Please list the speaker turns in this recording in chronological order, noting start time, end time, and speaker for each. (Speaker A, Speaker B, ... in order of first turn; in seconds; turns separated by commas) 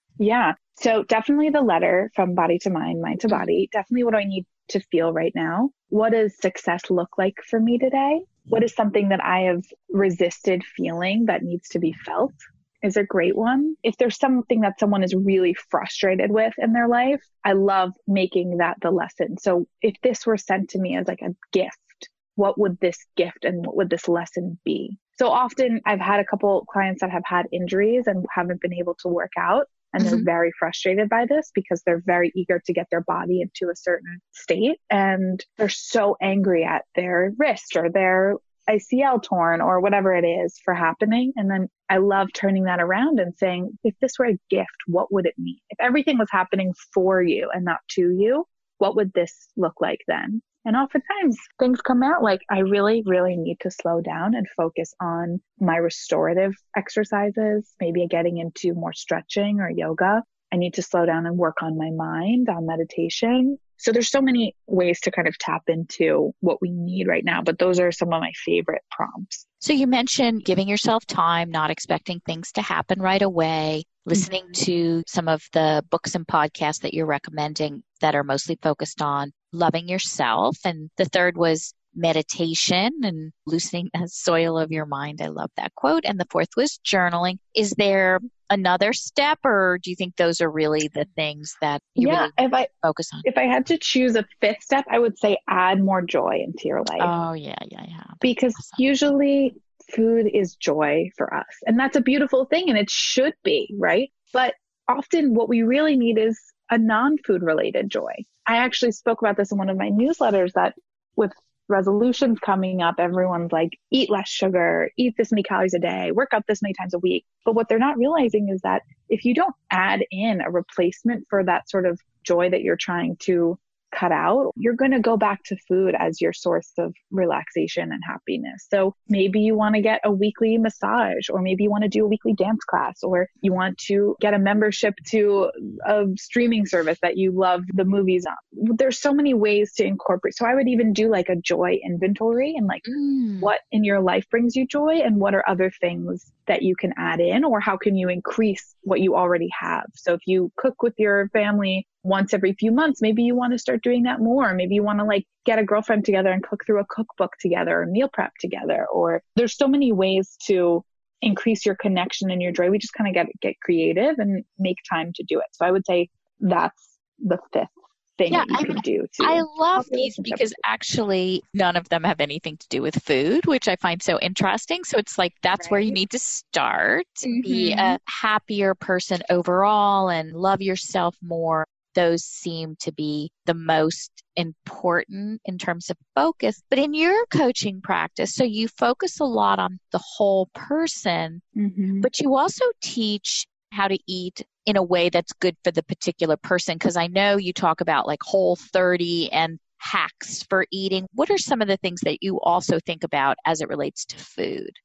Speaker A: 0.2-69.5, Speaker B: 30.0-30.3, Speaker B: 69.6-93.3, Speaker A: 74.1-74.6, Speaker A: 92.0-92.7, Speaker A: 93.2-97.1, Speaker B: 97.0-98.8, Speaker A: 98.2-142.8, Speaker B: 142.8-143.5, Speaker A: 143.4-170.6, Speaker B: 168.3-191.4, Speaker A: 175.6-176.0, Speaker A: 177.2-178.0, Speaker A: 191.6-192.1, Speaker B: 192.0-204.8